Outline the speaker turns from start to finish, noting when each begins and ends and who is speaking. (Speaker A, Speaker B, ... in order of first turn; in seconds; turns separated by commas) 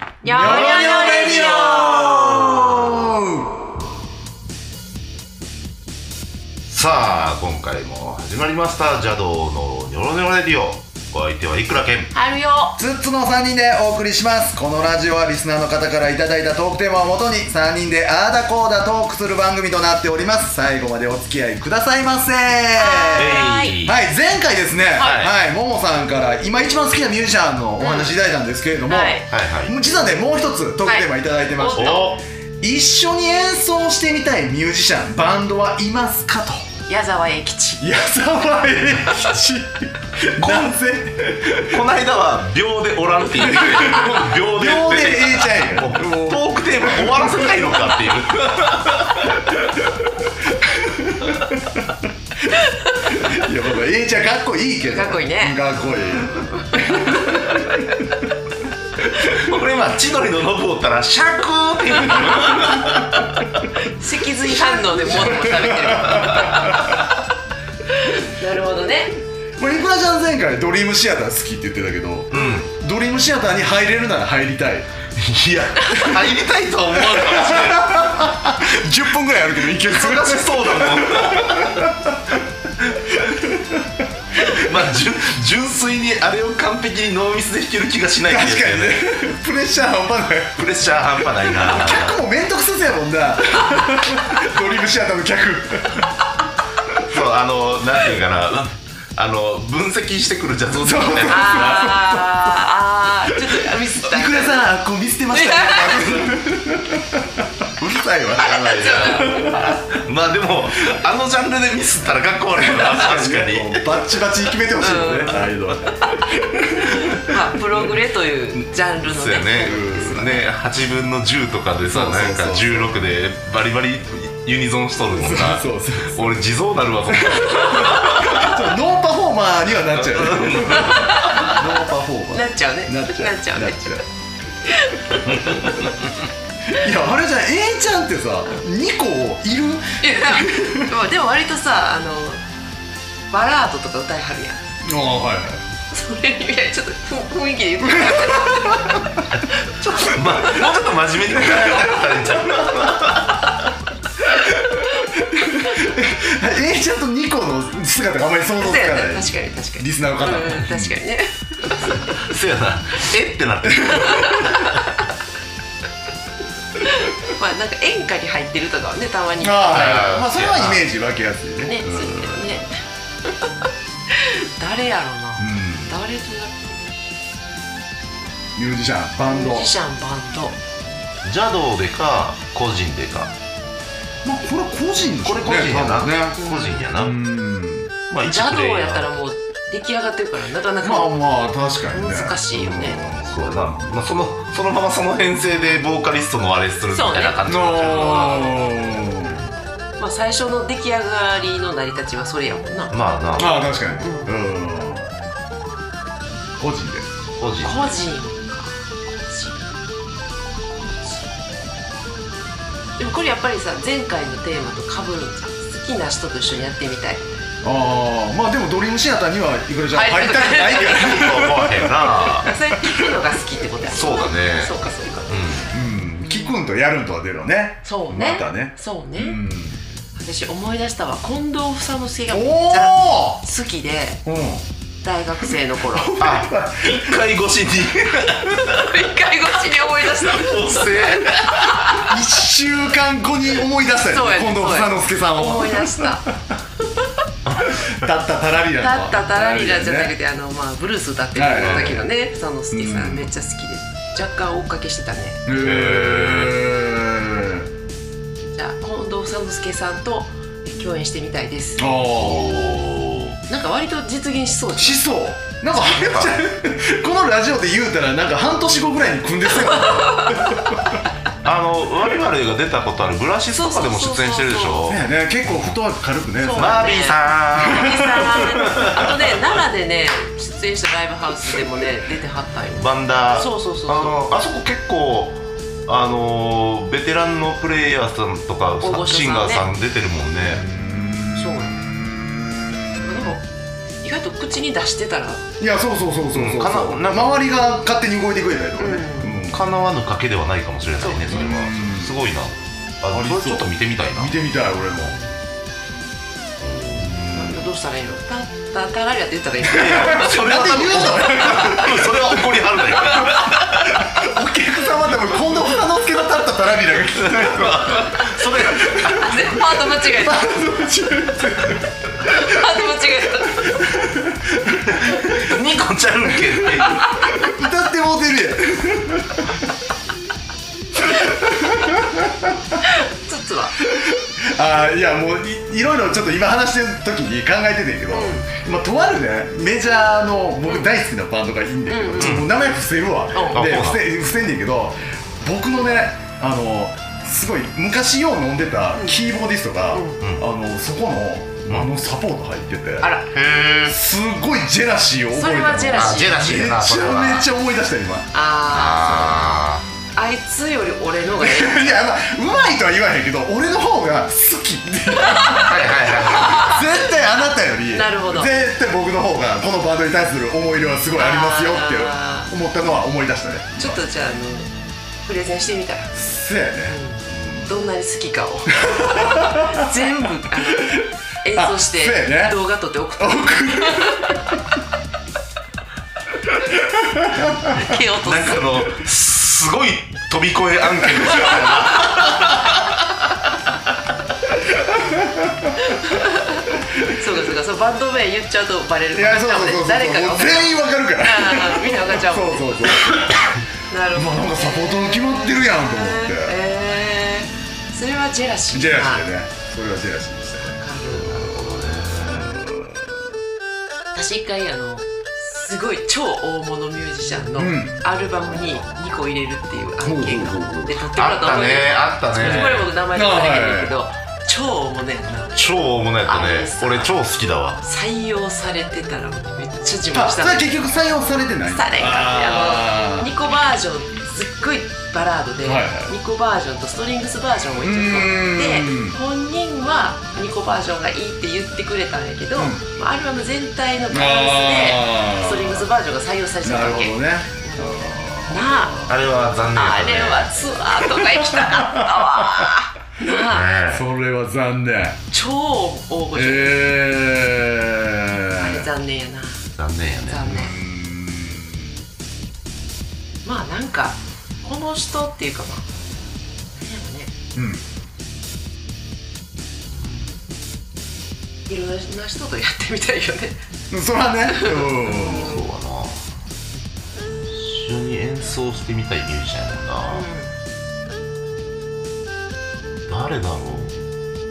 Speaker A: 0.2-2.5, Speaker B: 0.2-3.5, Speaker C: 0.3-1.9, Speaker C: 6.7-12.1, Speaker A: 12.1-12.8, Speaker B: 12.8-36.6, Speaker A: 22.8-23.8, Speaker C: 23.1-24.0, Speaker A: 25.0-25.2, Speaker C: 25.0-25.3, Speaker A: 27.8-28.1, Speaker A: 28.9-29.2, Speaker C: 29.3-29.7, Speaker A: 30.8-32.1, Speaker C: 31.7-32.2, Speaker A: 36.9-37.8, Speaker B: 37.8-41.8, Speaker C: 40.4-40.7, Speaker C: 41.6-49.9, Speaker B: 43.4-48.0, Speaker B: 50.6-51.8, Speaker B: 53.0-57.9, Speaker A: 54.9-55.6, Speaker A: 56.6-58.0, Speaker C: 59.0-63.5, Speaker A: 63.8-67.2, Speaker B: 65.0-66.9, Speaker C: 65.3-66.7, Speaker A: 67.8-69.1, Speaker B: 69.6-74.9, Speaker C: 72.3-72.7, Speaker C: 75.2-78.3, Speaker A: 75.8-76.1, Speaker B: 77.1-82.1, Speaker C: 79.8-81.9, Speaker B: 83.1-83.8, Speaker C: 84.4-89.0, Speaker B: 88.3-96.1, Speaker C: 90.6-92.2, Speaker C: 97.0-101.9, Speaker B: 100.7-102.6, Speaker A: 101.3-104.7, Speaker B: 104.1-109.8, Speaker A: 105.3-106.2, Speaker C: 108.4-113.9, Speaker A: 108.6-109.5, Speaker B: 112.5-117.4, Speaker A: 114.8-115.5, Speaker A: 116.8-120.5, Speaker C: 118.6-128.7, Speaker B: 119.7-120.1, Speaker B: 121.9-122.9, Speaker B: 125.1-126.4, Speaker B: 127.1-134.0, Speaker C: 130.0-131.5, Speaker A: 130.7-131.6, Speaker A: 132.3-134.0, Speaker A: 134.6-135.8, Speaker B: 135.3-135.9, Speaker C: 135.4-135.9, Speaker B: 136.7-140.9, Speaker A: 140.0-142.4, Speaker A: 143.3-144.6, Speaker B: 144.8-145.6, Speaker A: 145.9-149.1, Speaker B: 147.8-149.0, Speaker C: 149.5-153.6, Speaker B: 154.9-161.0, Speaker A: 158.6-162.1, Speaker C: 161.9-165.0, Speaker B: 163.9-164.5, Speaker A: 163.9-164.3, Speaker A: 166.8-170.1, Speaker B: 169.4-172.6, Speaker C: 169.7-170.8, Speaker A: 171.6-172.7, Speaker A: 174.1-176.9, Speaker B: 175.4-175.9, Speaker B: 178.6-179.7, Speaker A: 179.2-180.6, Speaker C: 181.2-183.3, Speaker B: 184.2-186.4, Speaker C: 185.2-187.2, Speaker A: 186.4-186.9, Speaker B: 186.9-187.9, Speaker C: 188.1-189.2, Speaker A: 188.2-191.1, Speaker B: 190.8-194.0, Speaker A: 191.9-193.0, Speaker C: 193.2-198.8, Speaker A: 196.9-198.6, Speaker B: 197.4-199.4, Speaker A: 200.0-203.4, Speaker C: 202.9-203.6, Speaker B: 203.4-205.1, Speaker A: 204.0-204.3, Speaker B: 206.6-207.1, Speaker C: 207.4-208.0, Speaker A: 207.6-209.7, Speaker A: 211.0-211.2, Speaker A: 213.0-217.3, Speaker B: 217.6-221.9, Speaker A: 219.9-221.5, Speaker C: 220.7-222.5, Speaker A: 222.0-225.3, Speaker C: 223.9-224.7, Speaker C: 225.3-225.7, Speaker B: 225.7-229.8, Speaker A: 226.2-226.6, Speaker A: 227.8-229.4, Speaker A: 230.2-234.2, Speaker B: 232.3-233.4, Speaker B: 234.2-234.6, Speaker A: 235.0-236.3, Speaker B: 235.9-237.2, Speaker C: 236.2-239.2, Speaker A: 238.5-242.1, Speaker C: 240.0-241.7, Speaker B: 241.9-246.1, Speaker A: 244.1-246.3, Speaker B: 247.6-250.1, Speaker A: 248.8-255.4, Speaker B: 251.3-252.1, Speaker C: 251.5-252.0, Speaker B: 252.7-253.3, Speaker B: 255.4-257.7, Speaker C: 255.6-256.6, Speaker A: 258.5-261.9, Speaker B: 261.8-262.5, Speaker C: 261.9-263.4, Speaker A: 263.5-265.0, Speaker B: 264.8-270.8, Speaker C: 265.8-266.4, Speaker A: 269.7-270.5, Speaker C: 271.4-275.7, Speaker A: 273.5-274.9, Speaker B: 274.9-277.0, Speaker A: 276.4-284.2, Speaker C: 276.5-279.3, Speaker B: 277.6-278.9, Speaker C: 282.7-290.6, Speaker A: 288.8-289.7, Speaker B: 290.4-293.3, Speaker A: 291.4-291.8, Speaker A: 293.0-293.4, Speaker A: 294.0-295.4, Speaker B: 295.6-299.6, Speaker C: 296.3-297.3, Speaker A: 298.8-299.4, Speaker C: 299.4-304.3, Speaker A: 301.0-301.5, Speaker B: 301.3-302.1, Speaker B: 303.1-305.2, Speaker C: 306.6-307.2, Speaker B: 307.1-307.6, Speaker A: 307.2-310.5, Speaker C: 309.6-314.2, Speaker B: 309.7-313.3, Speaker A: 311.3-311.9, Speaker B: 313.9-319.4, Speaker C: 317.2-319.5, Speaker A: 318.8-320.6, Speaker B: 319.9-321.9, Speaker A: 322.2-323.8, Speaker B: 323.6-324.9, Speaker C: 324.9-327.2, Speaker B: 327.3-329.5, Speaker B: 331.1-332.5, Speaker A: 332.8-333.8, Speaker B: 333.9-353.1, Speaker A: 338.1-338.5, Speaker A: 341.9-342.4, Speaker C: 342.2-342.5, Speaker A: 343.3-343.7, Speaker C: 343.5-344.0, Speaker A: 349.9-350.2, Speaker C: 350.2-350.4, Speaker A: 353.0-353.3, Speaker C: 353.3-354.0, Speaker B: 353.9-358.3, Speaker A: 355.3-356.5, Speaker C: 355.9-357.5, Speaker A: 358.3-359.6, Speaker C: 358.7-359.9, Speaker A: 360.1-362.0, Speaker B: 361.4-374.0, Speaker A: 365.2-366.9, Speaker C: 365.5-366.9, Speaker A: 367.9-368.5, Speaker A: 371.1-372.5, Speaker A: 373.8-374.7, Speaker A: 375.2-376.1, Speaker B: 376.1-377.6, Speaker A: 376.9-384.4, Speaker B: 378.9-379.9, Speaker B: 380.7-381.0, Speaker B: 381.5-382.6, Speaker B: 383.2-384.4, Speaker B: 386.9-387.8, Speaker A: 387.7-388.9, Speaker C: 387.8-393.0, Speaker B: 394.7-395.7, Speaker A: 395.8-403.0, Speaker B: 399.1-403.5, Speaker A: 403.9-409.3, Speaker B: 404.1-406.6, Speaker B: 408.7-410.8, Speaker A: 410.6-411.6, Speaker C: 411.1-412.5, Speaker B: 412.3-413.1, Speaker A: 414.1-427.1, Speaker B: 417.6-418.0, Speaker B: 420.0-421.1, Speaker C: 421.1-422.9, Speaker B: 422.4-423.9, Speaker C: 425.6-427.8, Speaker A: 427.8-430.7, Speaker B: 430.1-433.3, Speaker A: 431.7-449.1, Speaker B: 435.6-436.1, Speaker B: 437.8-439.1, Speaker B: 442.6-442.8, Speaker B: 444.1-445.9, Speaker B: 446.6-449.2, Speaker C: 449.1-451.0, Speaker A: 449.7-453.7, Speaker B: 451.1-452.7, Speaker C: 453.5-454.0, Speaker B: 453.9-455.2, Speaker A: 455.3-456.8, Speaker B: 456.3-458.9, Speaker A: 458.6-459.7, Speaker C: 459.8-460.6, Speaker A: 460.2-460.7, Speaker B: 460.4-461.8, Speaker A: 463.4-465.9, Speaker A: 466.7-467.3, Speaker B: 467.6-467.8, Speaker C: 469.9-470.3, Speaker A: 471.6-473.6, Speaker B: 473.9-475.5, Speaker A: 474.5-475.6, Speaker C: 475.2-476.2, Speaker C: 477.5-480.2, Speaker A: 480.1-480.5, Speaker C: 483.1-484.0